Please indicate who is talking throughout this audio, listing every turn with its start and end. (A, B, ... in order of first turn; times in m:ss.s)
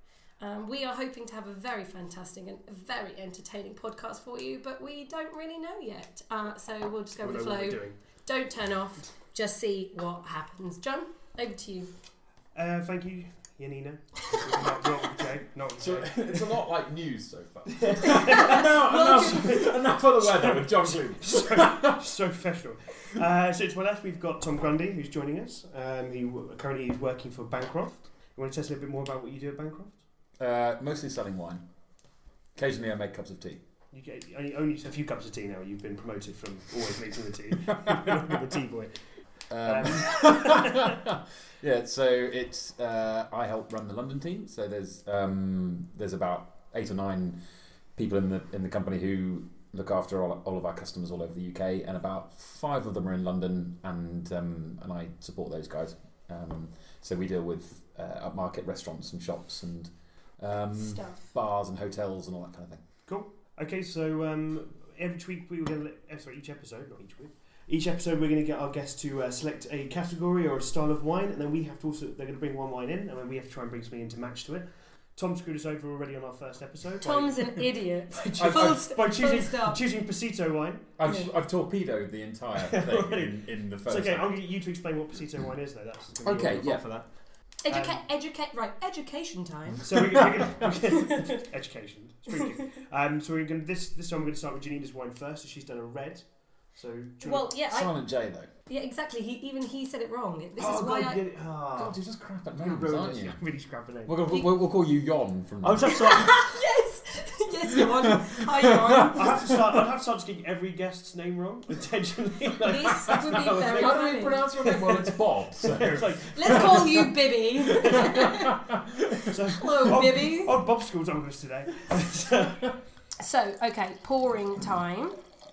0:00.4-0:11.9 A
0:07.2-0:08.0 B
0:12.6-0:16.6 B
0:15.8-0:22.0 C
0:17.7-0:30.0 B
0:18.0-0:19.7 A
0:30.4-0:31.6 C
0:32.6-0:33.6 C
0:33.9-0:38.9 B
0:37.8-0:38.1 C
0:39.5-0:47.4 C
0:39.6-0:40.9 B
0:48.0-1:02.8 C
1:00.9-1:01.3 A
1:03.1-1:17.6 B
1:17.0-1:19.8 A
1:18.1-1:20.9 B
1:21.0-1:24.4 C
1:21.0-1:21.3 A
1:22.6-1:27.1 B
1:26.2-1:26.8 C
1:27.6-1:29.9 A
1:27.7-1:28.0 B
1:29.8-1:37.5 B
1:30.9-1:31.4 A
1:37.2-1:37.9 A
1:37.7-1:38.5 C
1:38.7-1:41.2 A
1:40.6-1:42.0 B
1:41.8-1:43.4 C
1:42.6-1:44.2 B
1:44.1-1:46.2 C
1:45.6-1:46.4 B
1:45.9-1:49.4 A
1:47.7-1:49.6 C
1:49.0-1:57.1 B
1:52.6-1:54.4 A
1:53.5-1:57.1 C
1:56.3-1:58.6 A
1:57.7-1:59.3 C
1:57.8-1:58.3 B
1:59.2-2:00.6 A
1:59.2-2:02.8 B
2:03.2-2:05.2 A